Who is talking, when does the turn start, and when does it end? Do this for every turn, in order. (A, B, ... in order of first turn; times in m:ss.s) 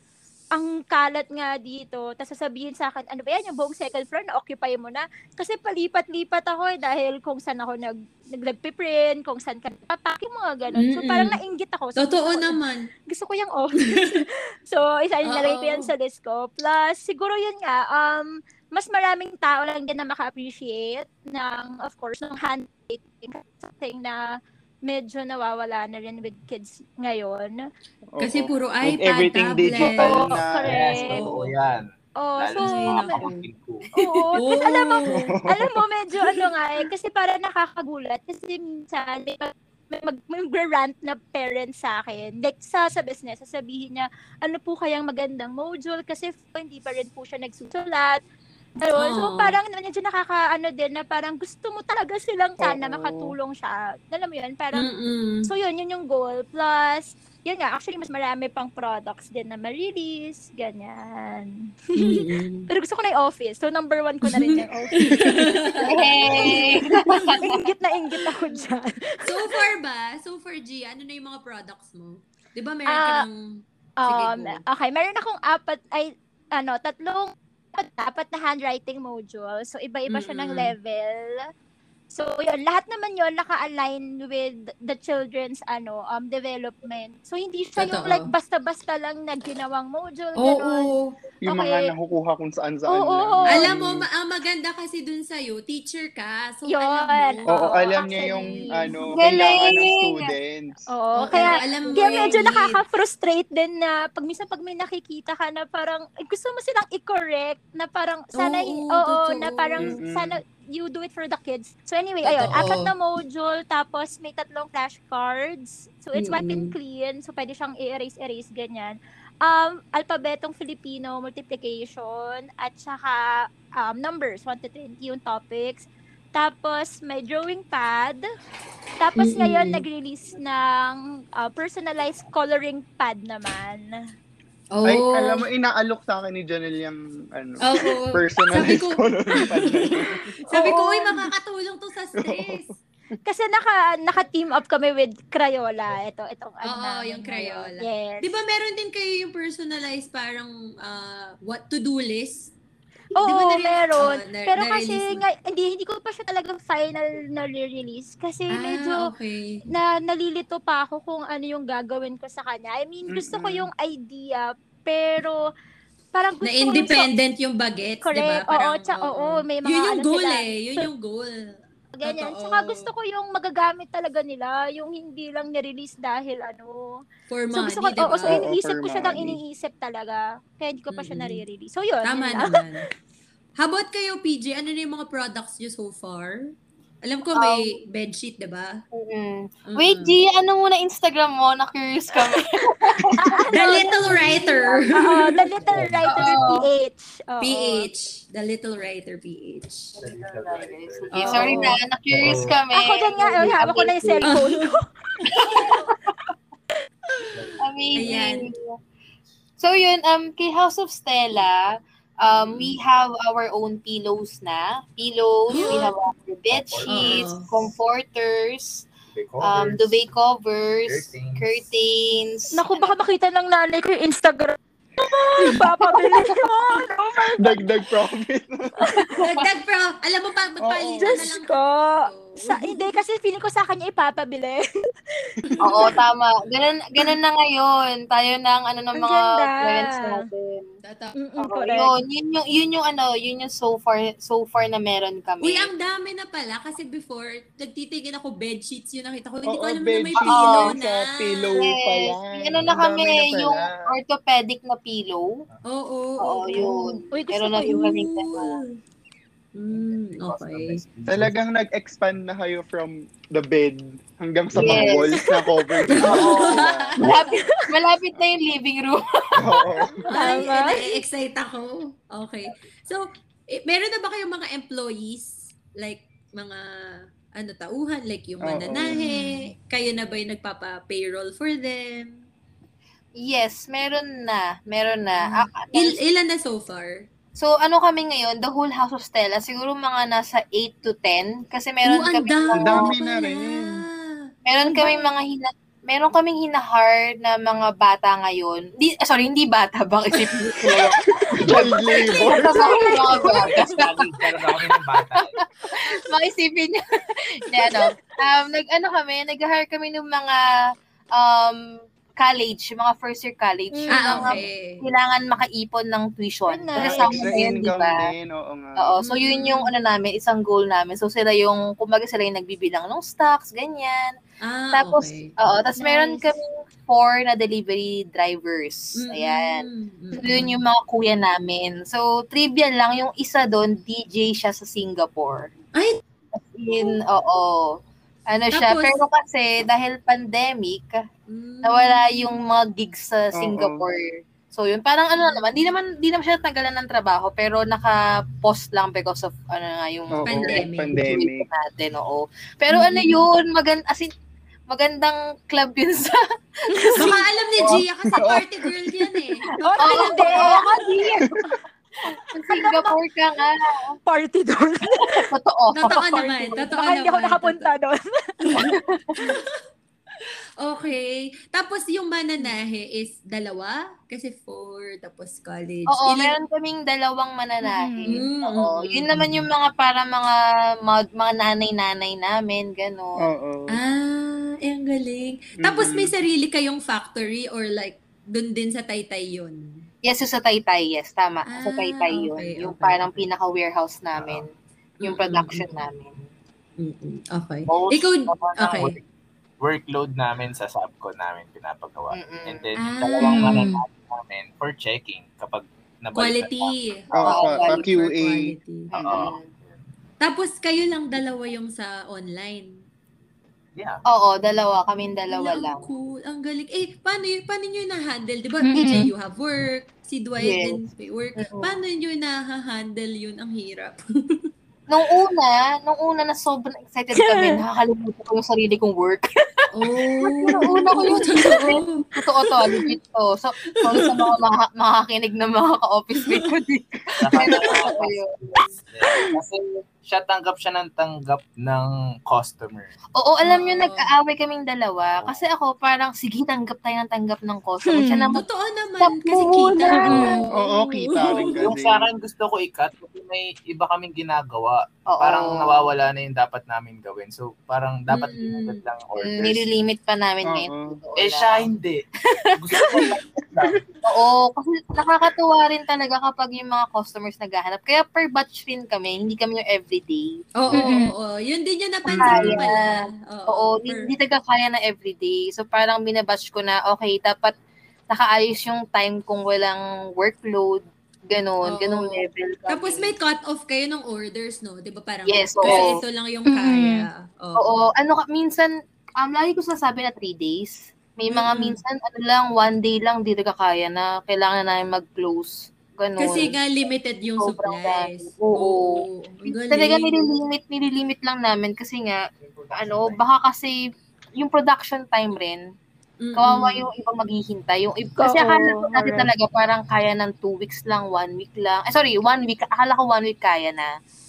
0:00.5-0:12.6 A
0:10.7-0:11.4 B
0:12.0-0:12.9 B
0:13.1-0:24.2 A
0:13.9-0:14.2 B
0:15.2-0:15.9 B
0:24.8-0:27.6 A
0:28.1-0:30.7 C
0:28.2-0:30.4 B
0:29.8-0:31.3 A
0:30.3-0:33.9 D
0:31.0-0:31.5 B
0:32.2-0:33.2 A
0:32.6-0:33.5 B
0:33.9-0:48.2 A
0:34.4-0:35.3 B
0:35.1-0:35.8 C
0:48.8-0:54.9 A
0:48.9-0:49.6 B
0:52.6-0:53.3 C
0:54.7-0:55.5 B
0:55.4-1:09.6 A
1:02.0-1:02.7 B
1:04.3-1:06.5 B
1:05.8-1:07.6 E
1:07.2-1:07.4 B
1:09.2-1:14.6 B
1:12.9-1:13.2 A
1:14.0-1:21.4 A
1:20.1-1:20.7 B
1:22.1-1:30.9 A
1:27.8-1:28.3 B
1:30.4-1:31.1 B
1:31.4-1:34.0 C
1:31.4-1:31.9 A
1:32.9-1:33.7 A
1:33.5-1:39.0 B
1:36.7-1:39.5 A
1:37.5-1:40.8 C
1:39.2-1:40.3 E
1:40.9-2:03.3 A
1:41.1-1:42.8 B
1:48.3-1:50.0 B
1:49.8-1:50.4 C
1:52.2-1:52.9 B
1:56.1-1:56.7 B
2:03.8-2:08.2 A
2:09.0-2:13.9 A
2:09.2-2:09.8 B
2:14.7-2:15.4 B
2:14.8-2:20.3 C
2:17.6-2:19.9 B
2:20.5-2:22.8 B
2:20.5-2:21.2 A
2:22.2-2:22.6 C
2:23.2-2:28.3 A
2:26.6-2:32.5 B
2:33.1-2:39.1 A
2:33.2-2:35.2 B
2:38.5-2:39.6 B
2:39.7-2:45.4 A
2:43.1-2:43.7 C
2:46.1-2:47.1 A
2:46.4-2:52.9 B
2:48.0-2:50.9 A
2:52.0-2:57.0 A
2:57.3-2:58.4 B
2:57.5-3:02.6 A
2:58.2-2:59.4 C
3:00.9-3:01.4 B
3:02.0-3:02.8 B
3:03.6-3:06.5 B
3:07.0-3:08.8 B
3:07.4-3:07.7 E
3:08.9-3:15.2 E
3:09.7-3:10.1 B
3:12.3-3:12.7 A
3:13.2-3:14.3 A
3:13.5-3:15.3 B
3:14.1-3:14.4 D
3:14.9-3:17.9 A
3:15.6-3:16.4 D
3:16.1-3:16.6 E
3:17.4-3:19.9 B
3:20.0-3:22.6 D
3:20.0-3:24.4 E
3:21.1-3:21.8 B
3:21.3-3:21.7 A
3:22.7-3:25.9 A
3:24.3-3:24.6 B
3:25.2-3:25.8 B
3:25.4-3:25.9 E
3:27.2-3:28.5 B
3:27.3-3:27.6 D
3:27.6-3:28.7 E
3:29.6-3:38.9 E
3:32.3-3:32.8 B
3:35.5-3:35.9 A
3:36.5-3:37.6 D
3:36.9-3:37.5 B
3:39.1-3:40.0 D
3:39.4-3:42.9 E
3:40.8-3:41.6 D
3:42.5-3:47.9 A
3:45.0-3:46.4 E
3:47.4-3:48.8 C
3:48.9-3:49.1 A
3:49.0-3:49.4 E
3:49.2-3:52.8 B
3:50.6-3:51.3 C
3:51.0-3:55.9 A
3:55.5-3:55.9 B
3:55.6-4:00.7 E
3:58.9-4:00.1 A
4:00.8-4:01.1 B
4:01.2-4:01.9 A
4:01.4-4:05.7 E
4:05.4-4:11.6 B
4:09.4-4:13.8 C
4:10.2-4:10.7 E
4:11.6-4:15.4 E
4:12.6-4:12.8 D
4:15.6-4:17.0 B
4:16.2-4:18.6 E
4:16.5-4:18.1 A
4:17.6-4:18.8 B
4:19.5-4:20.8 B
4:19.7-4:21.4 D
4:21.0-4:27.0 C
4:24.5-4:25.0 D
4:24.6-4:25.2 E
4:25.2-4:25.8 A
4:26.0-4:29.5 E
4:26.0-4:27.3 B
4:27.0-4:27.6 A
4:29.4-4:30.0 C
4:30.0-4:30.9 A
4:30.1-4:42.2 B
4:38.4-4:39.0 C
4:39.0-4:39.5 A
4:43.2-4:46.0 E
4:45.2-4:47.0 B
4:47.4-4:52.9 E
4:51.8-4:54.2 B
4:52.6-4:53.8 C
4:54.4-5:06.8 E
4:54.6-4:55.1 A
5:00.5-5:02.8 C
5:01.9-5:03.3 A
5:03.2-5:05.4 D
5:07.4-5:10.4 E
5:11.1-5:11.6 E
5:12.2-5:18.1 E
5:13.7-5:14.4 A
5:13.9-5:14.8 B
5:16.5-5:17.5 A
5:16.8-5:19.0 C
5:18.8-5:24.1 E
5:19.0-5:19.7 B
5:24.4-5:25.3 B
5:24.7-5:35.5 E
5:25.8-5:26.3 A
5:29.0-5:30.5 B
5:30.2-5:30.4 A
5:35.7-5:36.0 B
5:36.4-5:41.0 E
5:38.5-5:39.0 B
5:41.3-5:42.2 B
5:41.6-5:54.1 E
5:43.4-5:43.8 C
5:50.1-5:51.4 C
5:50.2-5:51.0 B
5:52.7-5:53.2 B
5:54.7-5:57.8 E
5:56.8-5:57.1 A
5:56.9-6:00.7 B
5:57.6-5:59.0 C
5:59.6-6:01.4 A
5:59.8-6:01.3 E
6:02.1-6:03.9 E
6:02.5-6:03.0 A
6:04.1-6:05.3 A
6:05.0-6:06.6 E
6:05.7-6:07.7 B
6:06.4-6:08.3 A
6:08.5-6:09.6 B
6:08.6-6:09.4 E
6:10.6-6:16.3 B
6:15.9-6:23.2 E
6:17.6-6:18.2 A
6:18.1-6:19.1 B
6:23.2-6:23.8 C
6:23.7-6:29.6 B
6:25.6-6:26.1 C
6:30.0-6:34.5 E
6:31.5-6:33.2 B
6:34.2-6:34.4 D
6:35.0-6:35.6 B
6:35.0-6:36.2 E
6:36.8-6:39.0 B
6:37.7-6:39.0 D
6:39.6-6:47.4 D
6:42.1-6:42.8 E
6:42.8-6:43.6 B
6:43.2-6:43.8 A
6:46.1-6:48.9 B
6:47.1-6:48.5 C
6:47.2-6:47.8 E
6:48.9-6:49.4 E
6:49.0-6:49.8 D
6:50.2-6:52.8 B
6:53.8-6:54.0 D
6:54.1-6:55.9 E
6:55.3-7:04.5 B
6:58.7-6:59.1 A
7:00.4-7:00.8 E
7:01.4-7:01.8 E
7:04.9-7:09.3 E
7:07.2-7:07.6 A
7:09.7-7:12.8 B
7:10.2-7:18.3 E
7:13.9-7:14.3 B
7:16.2-7:16.5 B
7:17.2-7:22.9 D
7:19.1-7:19.4 E
7:23.1-7:28.4 E
7:23.4-7:24.1 B
7:25.1-7:25.4 D
7:27.8-7:28.3 A
7:28.3-7:31.6 B
7:29.0-7:30.4 E
7:29.9-7:30.4 A
7:30.5-7:32.1 C
7:31.4-7:39.6 D
7:35.1-7:35.9 E
7:38.1-7:38.8 B
7:39.2-7:41.7 E
7:40.4-7:41.0 C
7:41.2-7:43.9 D
7:42.3-7:43.1 E
7:44.0-7:50.4 E
7:50.6-7:54.1 B
7:50.7-7:51.1 A
7:52.1-7:57.6 E
7:52.1-7:52.7 C
7:58.1-8:03.1 E
8:01.6-8:07.6 B
8:05.3-8:06.0 E
8:06.5-8:07.0 A
8:07.6-8:16.5 E
8:11.3-8:11.8 B
8:16.2-8:20.1 B
8:17.4-8:25.6 E
8:26.2-8:26.9 B
8:26.4-8:33.9 E
8:28.2-8:29.3 A